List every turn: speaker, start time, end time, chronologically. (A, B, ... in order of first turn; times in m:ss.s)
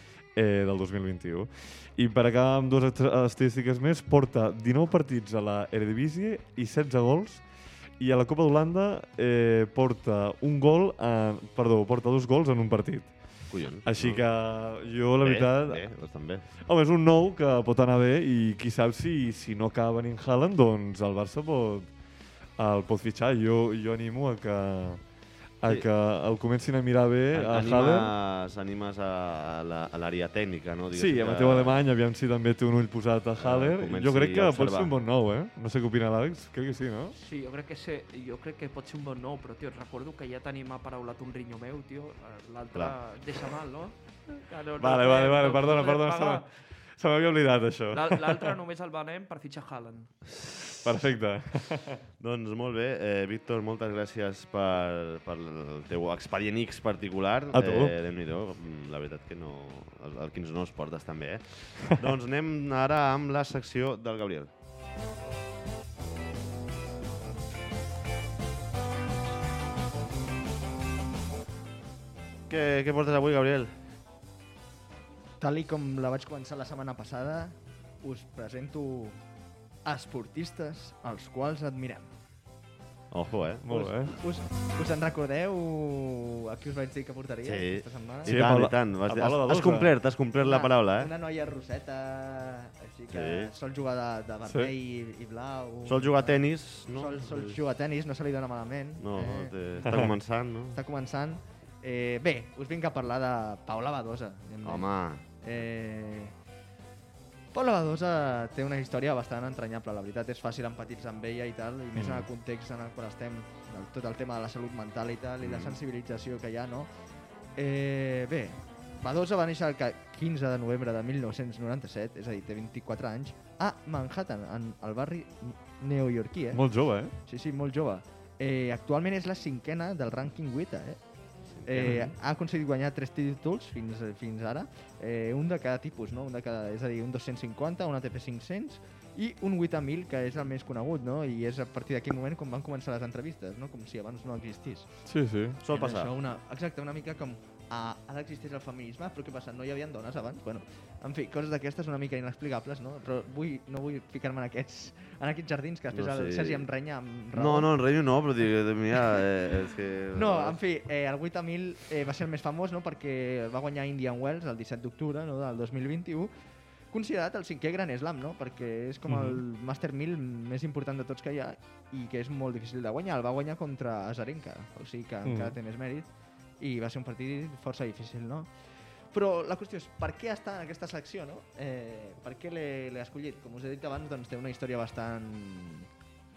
0:00.4-0:07.4 A
0:08.0-0:13.1 A
0:13.5-0:14.2 B
0:13.8-0:15.8 A
0:15.2-0:16.4 B
0:16.6-0:21.9 A
0:22.6-0:25.0 A
0:25.6-0:28.1 A
0:27.3-0:31.8 B
0:30.9-0:37.2 A
0:33.4-0:34.9 B
0:37.2-0:46.5 C
0:44.8-0:48.6 A
0:47.9-0:50.1 C
0:50.3-0:50.8 B
0:50.8-0:52.0 A
0:52.2-1:04.5 B
0:57.5-0:58.0 A
1:12.5-1:13.7 B
1:15.4-1:19.2 D
1:19.8-1:22.1 D
1:23.1-1:23.7 B
1:23.6-1:24.2 A
1:23.7-1:28.4 D
1:27.4-1:31.1 B
1:28.2-1:30.0 A
1:30.4-1:40.0 D
1:33.1-1:33.5 B
1:34.4-1:34.7 A
1:35.8-1:37.6 B
1:39.0-1:40.8 B
1:39.8-1:40.1 A
1:40.7-1:46.3 D
1:44.6-1:45.2 B
1:47.5-1:56.9 D
1:51.9-1:52.3 A
1:55.4-1:55.8 B
1:57.6-2:06.6 D
2:06.5-2:07.1 A
2:07.2-2:11.0 D
2:11.6-2:12.1 B
2:11.6-2:24.9 D
2:25.0-2:25.6 A
2:25.6-2:26.1 B
2:25.7-2:37.7 D
2:35.9-2:36.6 B
2:37.3-2:40.6 B
2:40.1-2:46.3 D
2:46.9-2:56.1 D
2:49.1-2:49.4 A
2:55.2-2:55.6 A
2:56.6-2:58.5 D
2:59.1-3:05.9 D